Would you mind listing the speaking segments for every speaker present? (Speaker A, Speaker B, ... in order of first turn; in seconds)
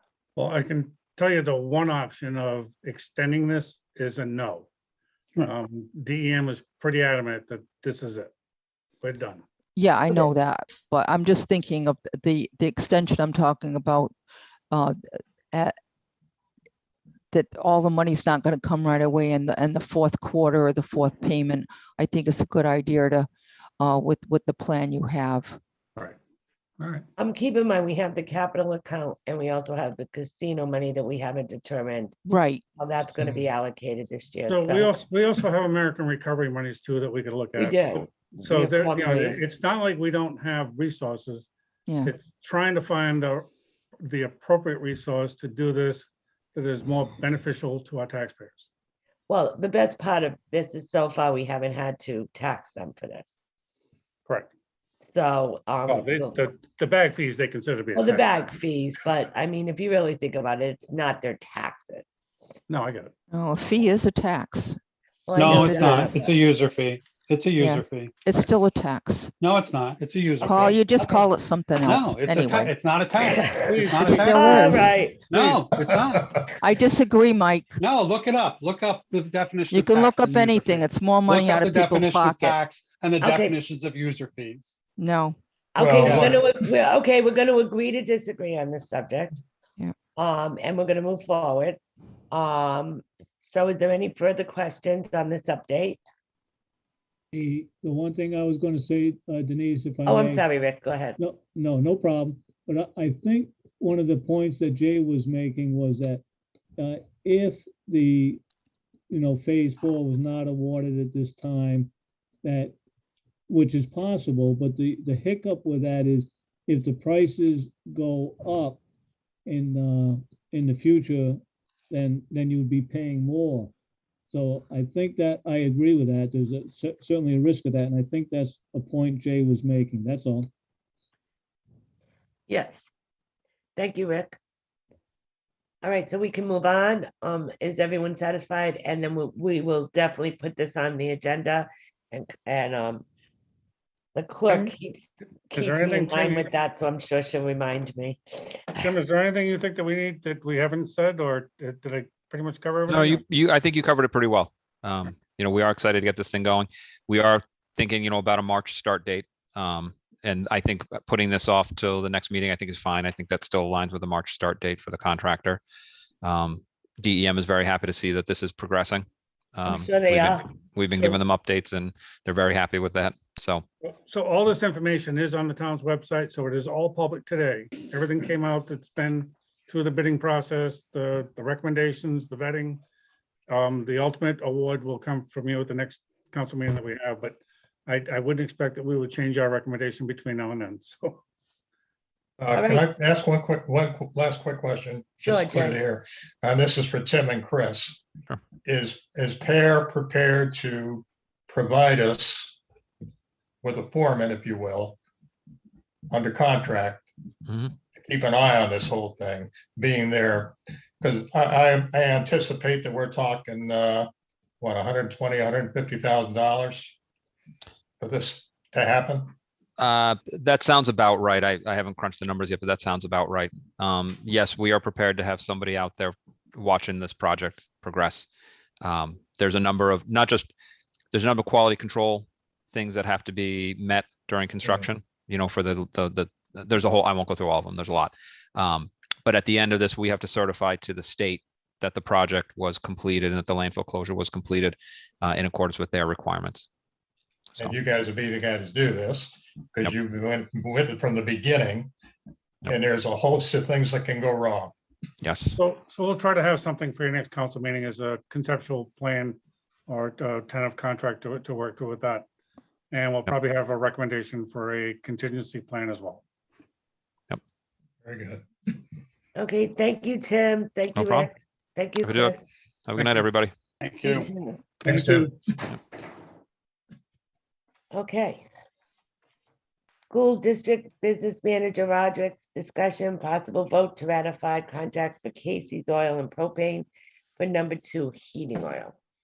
Speaker A: 0.3-4.7, 5.4-8.3, 9.0-9.4, 26.8-27.0, 34.5-41.5, 42.0-43.5, 44.0-48.7, 55.9-58.6, 62.7-63.1, 75.3-75.9, 145.6-146.5, 148.8-153.2, 173.8-182.8, 183.5-191.2, 255.6-262.2, 262.9-266.2
Speaker B: 9.8-14.1, 14.7-15.7, 17.3-23.3, 23.8-25.6, 32.3-32.6, 41.9-42.1, 63.3-64.8, 65.4-66.3, 67.6-69.3, 70.4-72.7, 73.8-75.0, 76.6-77.8, 79.7-82.5, 85.0-85.4
Speaker C: 27.2-32.2, 32.8-35.1, 37.5-39.4, 49.3-53.3, 55.0-56.5, 57.9-62.1, 65.3-66.2, 71.0-71.3, 73.2-75.3, 83.2-83.5, 85.7-89.4, 90.2-91.8, 92.3-96.0, 100.0-101.2, 132.5-132.9, 133.8-134.4, 135.8-143.0, 144.1-148.9, 169.7-171.2, 192.5-192.8, 195.2-195.8, 269.4-272.4, 274.0-274.5, 277.9-278.4, 280.1-286.9, 287.4-288.9
Speaker D: 65.3-68.1, 69.4-70.8, 71.8-76.3, 77.8-84.8, 86.0-86.4, 273.8-274.3
Speaker E: 75.8-76.3, 85.8-86.5, 192.4-198.0, 198.6-202.6, 203.6-205.0, 206.1-207.1, 207.9-214.1, 214.6-217.0, 218.0-219.3, 247.6-251.9, 252.6-254.7, 268.0-268.4, 274.8-275.3
Speaker F: 97.3-100.5, 101.2-106.2, 106.8-108.4, 109.1-111.9, 112.4-112.8, 113.5-118.8, 119.5-123.7, 124.3-130.5
Speaker G: 152.9-165.6, 166.2-173.6, 207.5-207.7, 219.8-228.3, 228.8-230.5, 231.1-246.7, 255.2-255.6, 270.9-271.3, 272.0-272.3, 272.9-273.5